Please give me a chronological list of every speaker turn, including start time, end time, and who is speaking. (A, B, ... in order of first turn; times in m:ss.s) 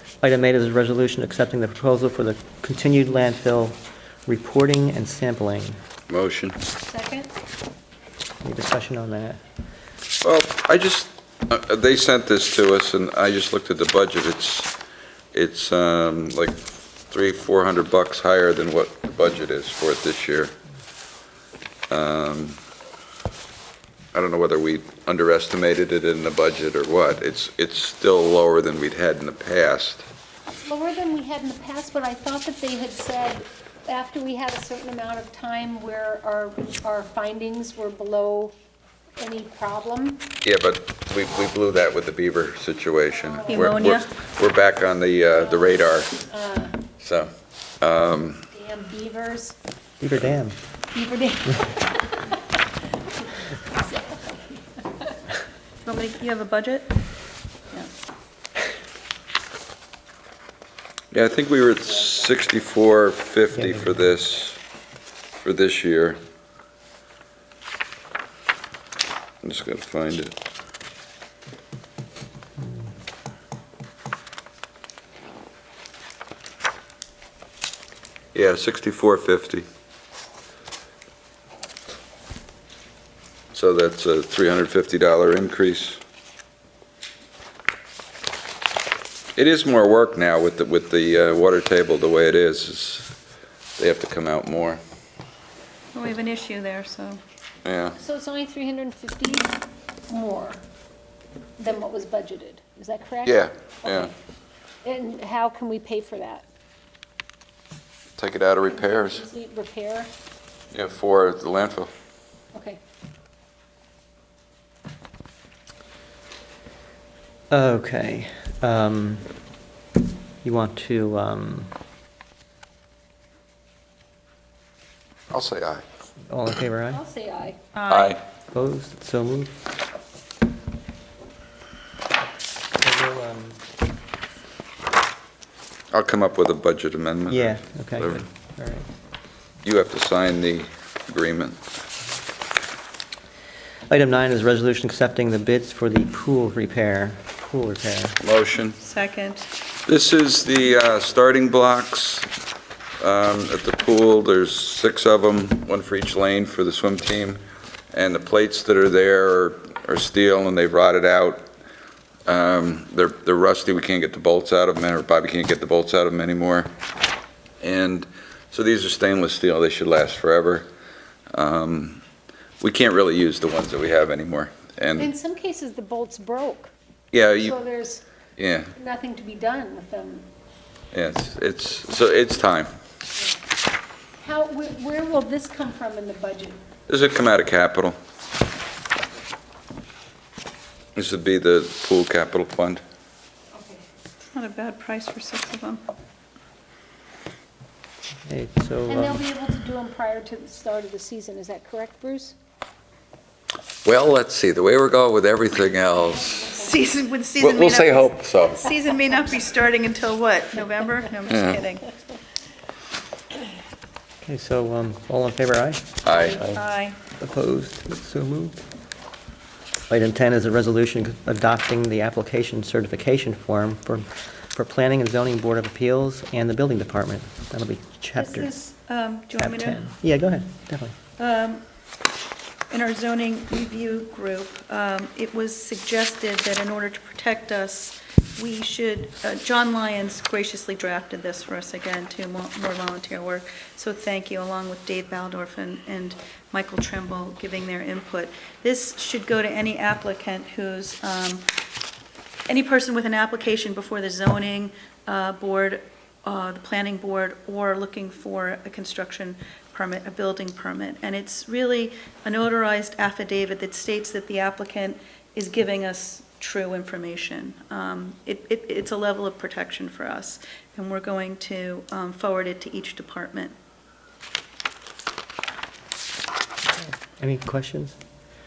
0:00.2-0:05.8 A
0:06.1-0:06.6 B
0:06.8-0:07.3 C
0:08.4-0:09.4 A
0:10.2-0:14.7 B
0:15.3-0:20.5 B
0:21.9-0:22.6 B
0:24.1-0:30.1 B
0:30.6-0:38.5 C
0:39.2-0:40.3 C
0:40.4-0:46.2 B
0:43.1-0:43.7 C
0:43.5-0:44.1 D
0:45.4-0:46.8 C
0:47.0-0:48.4 B
0:48.5-0:49.6 C
0:50.0-0:50.6 A
0:50.9-0:52.4 C
0:53.4-0:55.1 C
0:55.8-0:56.9 D
1:01.1-1:04.6 B
1:03.5-1:04.0 A
1:05.4-1:06.2 B
1:09.4-1:10.3 B
1:12.6-1:12.9 A
1:18.3-1:19.6 B
1:23.5-1:26.0 B
1:29.4-1:33.1 B
1:33.8-1:34.8 B
1:35.9-1:37.2 D
1:37.6-1:38.0 B
1:38.0-1:39.6 C
1:40.1-1:40.6 C
1:41.6-1:44.1 C
1:43.2-1:44.1 B
1:44.8-1:46.4 C
1:48.2-1:49.2 B
1:48.7-1:50.1 C
1:50.7-1:51.9 B
1:52.5-1:52.8 C
1:57.5-1:59.3 A
2:00.4-2:01.7 A
2:05.3-2:05.8 B
2:06.3-2:07.0 A
2:06.9-2:07.6 C
2:07.7-2:08.2 D
2:07.9-2:08.2 B
2:08.5-2:09.6 A
2:12.8-2:13.6 A
2:15.9-2:18.2 B
2:17.3-2:18.9 A
2:19.6-2:21.6 B
2:23.9-2:28.2 A
2:28.2-2:28.8 B
2:28.8-2:29.5 D
2:29.8-2:32.3 B
2:33.0-2:37.4 B
2:37.9-2:41.5 B
2:42.2-2:46.7 B
2:47.6-2:50.7 B
2:51.3-2:52.0 B
2:52.6-2:55.1 B
2:55.0-2:56.7 C
2:57.1-2:57.6 B
2:57.4-2:58.0 C
2:58.4-2:58.7 B
2:58.8-3:00.3 C
3:00.9-3:02.7 B
3:04.2-3:06.6 C
3:06.9-3:08.0 B
3:10.9-3:12.8 B
3:13.5-3:13.8 C
3:14.3-3:15.8 D
3:18.3-3:19.2 A
3:18.9-3:22.4 C
3:23.8-3:26.5 B
3:26.1-3:26.8 C
3:26.5-3:31.9 D
3:27.4-3:28.7 B
3:31.3-3:31.6 B
3:34.2-3:36.6 A
3:36.0-3:36.4 B
3:36.3-3:37.0 D
3:37.2-3:38.6 A
3:39.9-3:48.5 A
3:48.2-3:49.8 D
3:49.4-3:50.9 A
3:51.2-3:51.6 D
3:52.7-4:11.4 D
4:12.5-4:33.5 D
4:37.2-4:38.0 A